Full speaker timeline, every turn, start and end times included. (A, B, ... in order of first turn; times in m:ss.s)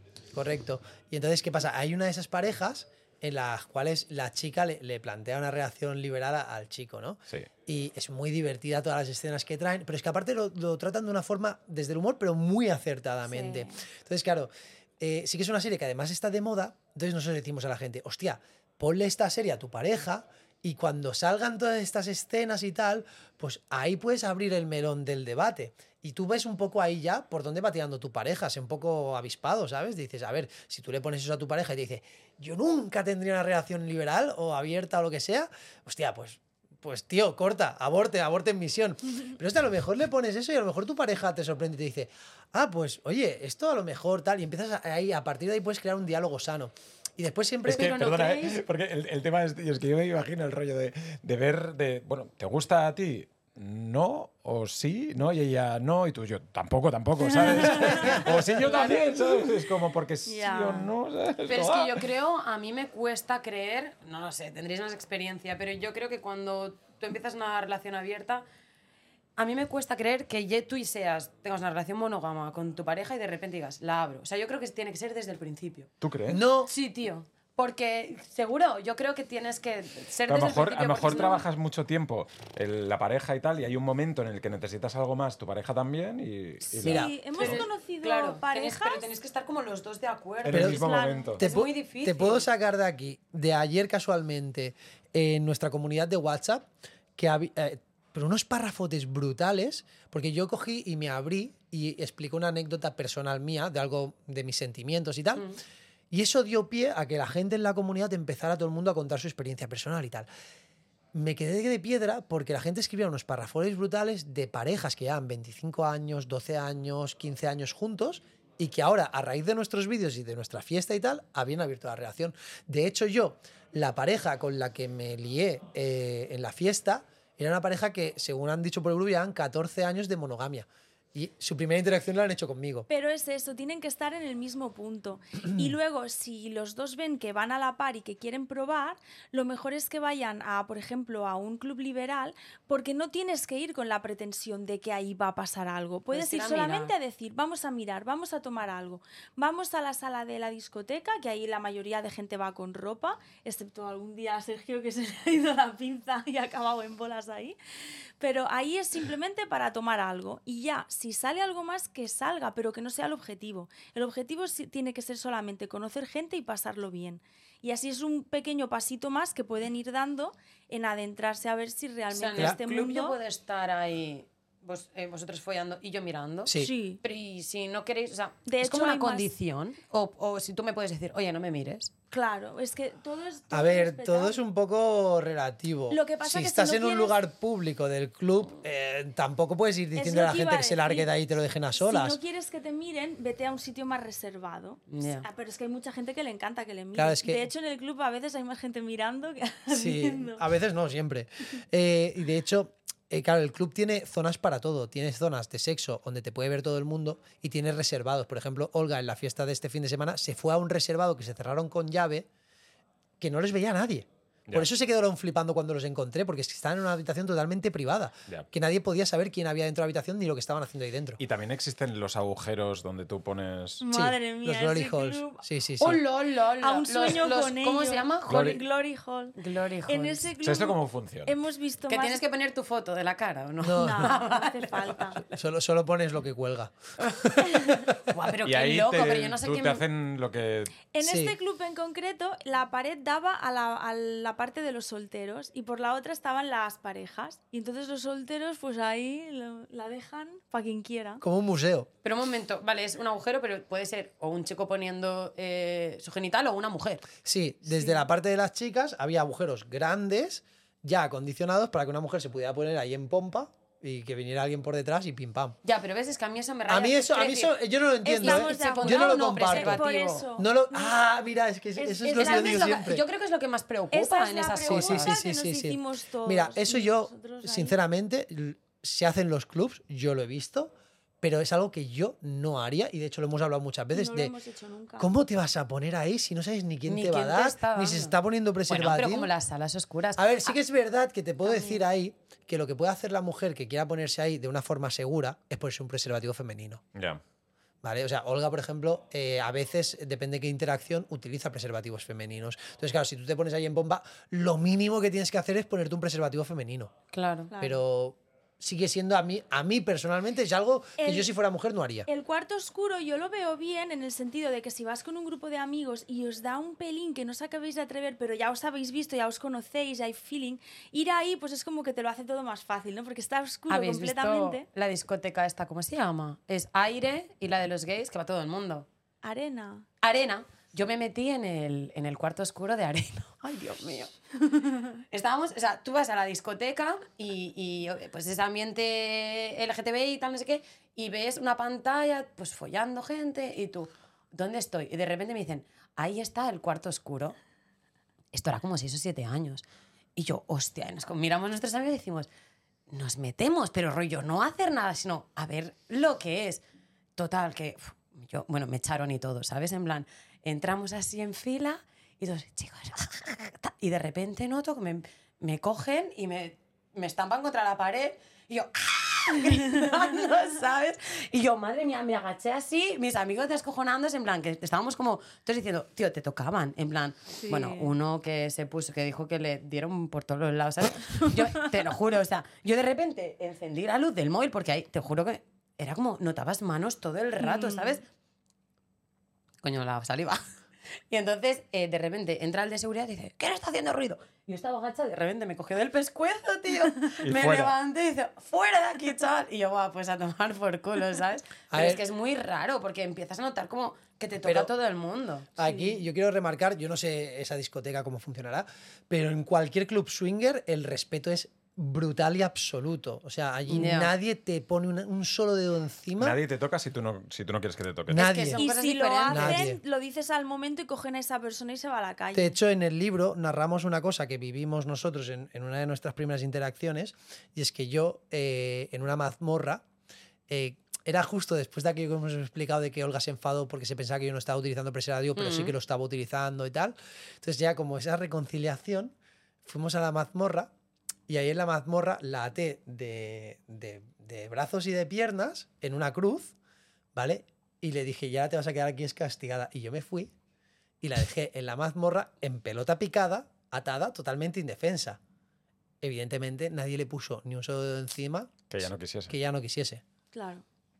0:00.3-0:48.1 A
0:13.4-0:13.8 B
0:47.7-1:02.0 C
0:47.7-0:48.6 B
0:57.3-0:58.3 B
0:57.9-0:58.6 A
1:00.3-1:00.9 B
1:01.4-1:08.4 D
1:09.4-1:15.9 D
1:16.0-1:16.4 C
1:16.3-1:16.7 A
1:16.7-1:21.4 D
1:20.3-1:27.6 C
1:26.8-1:27.2 A
1:26.8-1:29.1 B
1:27.4-1:32.5 D
1:30.4-1:31.4 C
1:30.5-1:45.5 A
1:30.7-1:31.4 B
1:46.1-1:50.3 A
1:51.1-2:12.9 A
2:12.9-2:37.6 B
2:26.1-2:26.9 D
2:38.2-2:53.2 B
2:52.1-3:01.9 D
2:56.4-2:56.7 A
2:56.6-2:57.0 B
2:58.5-2:59.3 B
3:02.1-3:04.4 B
3:03.5-3:12.2 A
3:05.9-3:07.2 B
3:09.9-3:11.1 B
3:11.8-3:20.4 B
3:14.9-3:15.2 D
3:17.0-3:17.5 A
3:19.7-3:32.3 A
3:33.2-3:41.2 A
3:41.2-3:43.8 C
3:43.8-3:46.0 B
3:43.9-3:46.0 A
3:45.8-3:48.6 D
3:46.6-3:52.3 B
3:48.3-3:48.6 C
3:49.4-3:50.3 D
3:50.4-3:51.3 C
3:51.9-3:55.2 D
3:53.6-3:54.2 A
3:53.8-3:55.2 B
3:55.3-3:58.0 A
3:57.1-3:57.4 D
3:58.1-3:59.8 D
3:58.4-4:00.8 C
4:00.9-4:11.2 B
4:01.0-4:01.4 A
4:11.2-4:11.9 A
4:12.0-4:17.1 D
4:17.2-4:25.6 A
4:17.7-4:18.0 B
4:25.6-4:27.5 D
4:26.7-4:33.0 A
4:28.0-4:31.0 B
4:28.1-4:30.3 D
4:31.8-4:32.7 B
4:32.1-4:35.1 D
4:33.9-4:37.8 B
4:34.7-4:44.3 A
4:43.9-4:45.1 B
4:45.0-4:49.3 A
4:46.9-4:48.1 D
4:48.7-4:50.6 D
4:50.2-4:56.8 A
4:51.4-4:51.8 B
4:57.0-4:57.2 C
4:57.8-5:06.9 A
5:07.1-5:07.5 D
5:07.5-5:07.8 B
5:07.6-5:12.1 A
5:11.0-5:11.3 B
5:12.1-5:24.7 B
5:23.7-5:28.9 D
5:29.2-5:29.9 B
5:30.0-5:34.1 D
5:35.1-5:47.4 D
5:48.3-5:49.6 D
5:50.2-5:52.3 D
5:52.9-5:56.6 D
5:57.2-6:28.1 D
6:17.4-6:17.9 B
6:27.4-6:28.0 B
6:29.6-6:30.4 D
6:31.1-6:45.5 D
6:37.2-6:37.7 C
6:41.7-6:42.0 A
6:44.4-6:44.7 A
6:45.6-6:56.4 A
6:45.6-6:46.0 B
6:53.7-6:54.1 D
6:56.2-6:58.3 C
6:58.1-6:58.7 A
6:58.1-6:59.7 D
6:58.6-7:02.6 B
6:59.3-6:59.8 A
7:02.3-7:09.8 A
7:10.5-7:20.7 A
7:15.4-7:15.7 D
7:21.3-7:26.6 A
7:27.2-7:30.3 A
7:31.0-7:35.2 A
7:36.0-7:38.7 A
7:38.7-7:39.4 C
7:39.3-7:40.0 A
7:40.3-7:40.6 B